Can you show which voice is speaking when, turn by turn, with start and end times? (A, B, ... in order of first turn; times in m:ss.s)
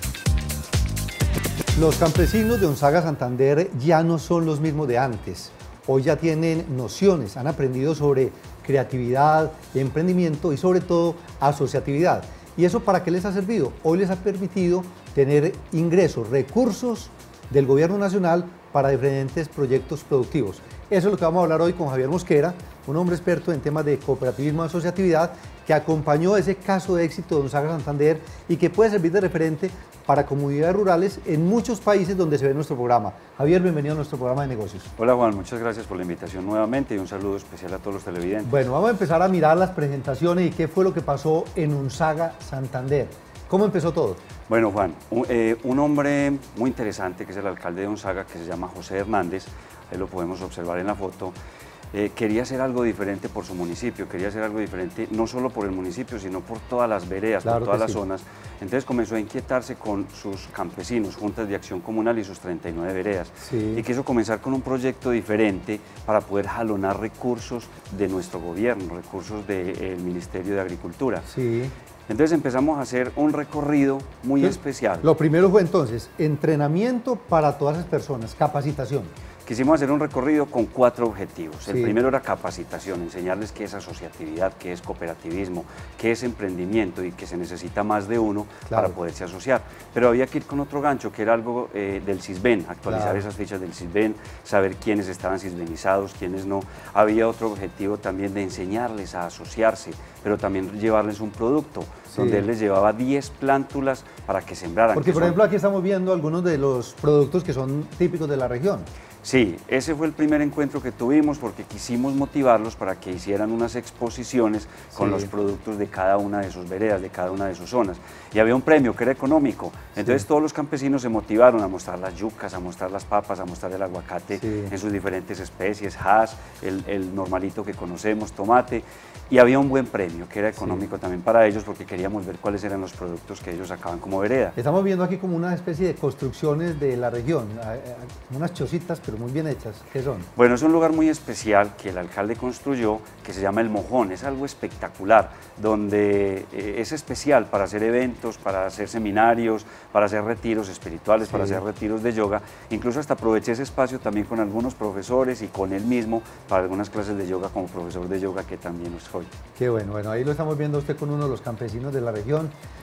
0:01.8-0:34.9 A
0:35.0-0:38.5 B
0:38.4-0:44.2 A
0:44.5-0:51.4 B
0:51.9-1:11.3 B
0:57.4-0:58.0 A
1:03.4-1:03.8 A
1:11.3-1:11.7 A
1:12.1-1:15.1 B
1:14.4-1:19.1 A
1:19.5-1:45.4 B
1:21.7-1:22.0 A
1:28.7-1:29.0 A
1:32.9-1:33.2 A
1:42.1-1:42.5 A
1:44.9-1:48.9 A
1:49.2-2:14.6 B
1:55.0-1:55.3 A
2:04.4-2:04.7 A
2:10.6-2:10.8 A
2:14.6-2:20.3 A
2:20.4-2:39.3 B
2:31.3-2:31.6 A
2:39.6-2:42.5 A